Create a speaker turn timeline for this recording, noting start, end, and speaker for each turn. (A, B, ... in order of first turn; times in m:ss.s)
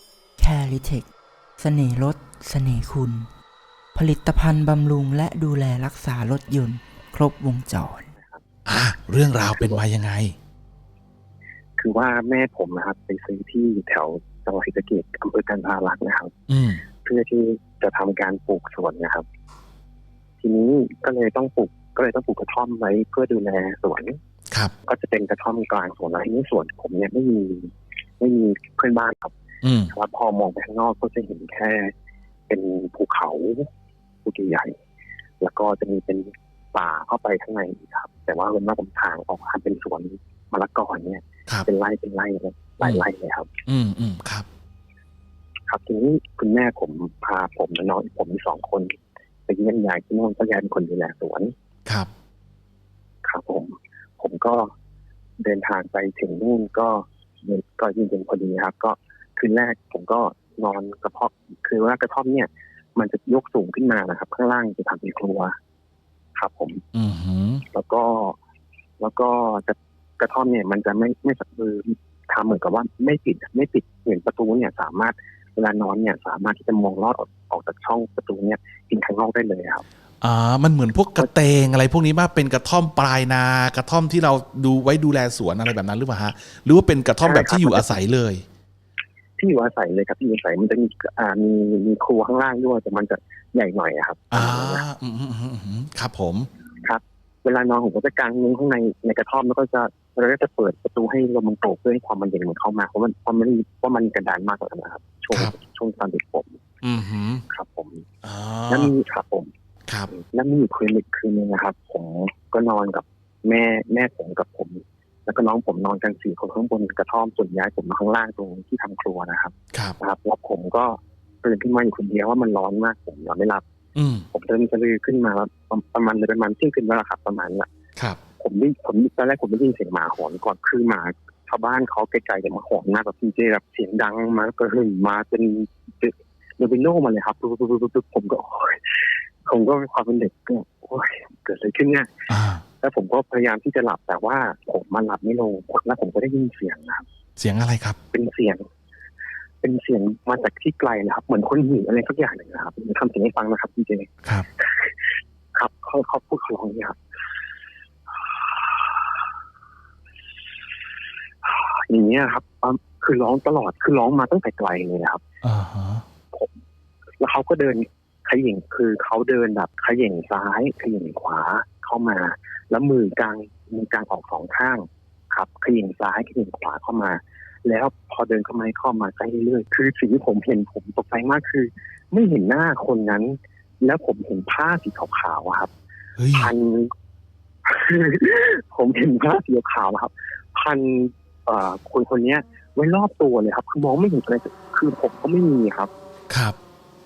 0:00.4-0:03.3 A
0:03.9-0:08.1 A
0:08.2-0:08.4 B
0:08.6-0:10.3 C
0:11.8-0:16.3 B
0:16.5-0:16.8 C
0:17.0-0:19.2 B
0:20.4-0:24.2 B
0:24.8-0:29.3 B
0:29.6-0:29.9 C
0:29.9-0:31.9 B
0:32.5-0:33.7 B
0:34.2-0:34.7 B
0:35.4-0:43.5 B
0:43.6-0:44.5 C
0:45.7-0:49.0 B
0:49.5-0:51.5 B
0:53.2-0:54.7 B
0:55.4-1:05.5 B
1:06.3-1:06.8 B
1:06.9-1:07.6 C
1:07.7-1:08.4 B
1:09.0-1:19.8 B
1:20.2-1:28.4 C
1:27.2-1:28.0 B
1:29.4-1:34.8 B
1:34.3-1:36.5 C
1:36.8-1:46.6 B
1:46.8-1:47.4 C
1:47.5-1:48.0 B
1:48.2-1:48.9 C
1:48.7-1:49.5 B
1:50.1-2:03.6 B
2:03.9-2:04.3 C
2:04.3-2:07.7 B
2:08.4-2:18.9 B
2:19.4-2:22.1 B
2:22.3-2:22.6 C
2:22.8-2:27.0 B
2:27.4-2:28.0 C
2:28.1-2:28.6 B
2:29.6-2:34.9 B
2:35.5-2:37.0 B
2:41.4-2:45.2 B
2:45.4-2:46.0 C
2:47.2-3:05.7 B
3:06.2-3:06.5 C
3:06.3-3:06.9 B
3:07.6-3:15.9 B
3:16.3-3:16.6 C